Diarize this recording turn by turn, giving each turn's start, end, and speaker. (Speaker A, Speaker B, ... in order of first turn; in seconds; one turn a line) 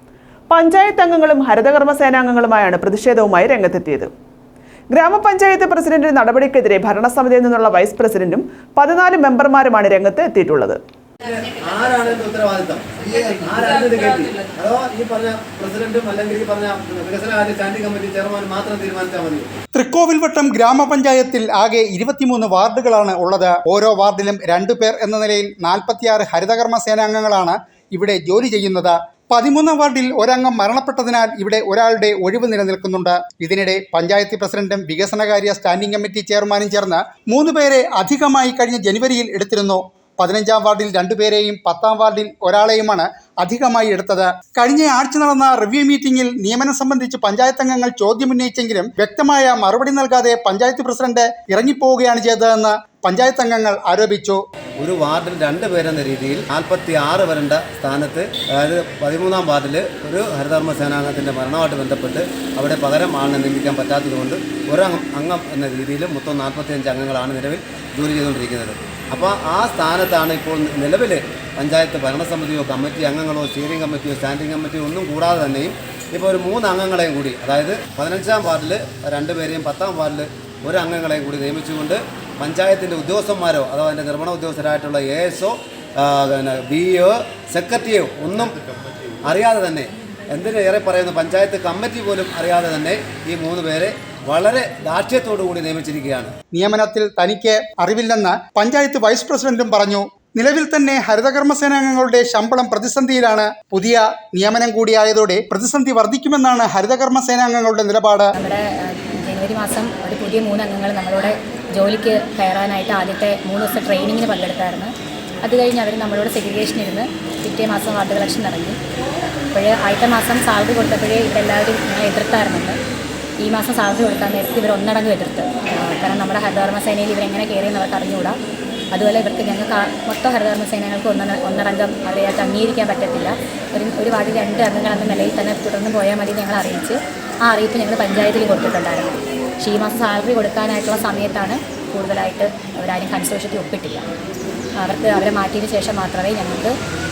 Speaker A: 0.5-4.1
Speaker A: 4.9-10.8
Speaker B: 11.2-19.5
Speaker C: 19.8-54.4
Speaker B: 54.8-88.6
Speaker B: 89.2-96.3
Speaker C: 96.5-108.3
Speaker D: 108.4-114.9
Speaker D: 115.4-118.8
Speaker D: 119.5-122.8
Speaker D: 123.4-128.4
Speaker D: 128.9-144.1
Speaker D: 144.8-146.8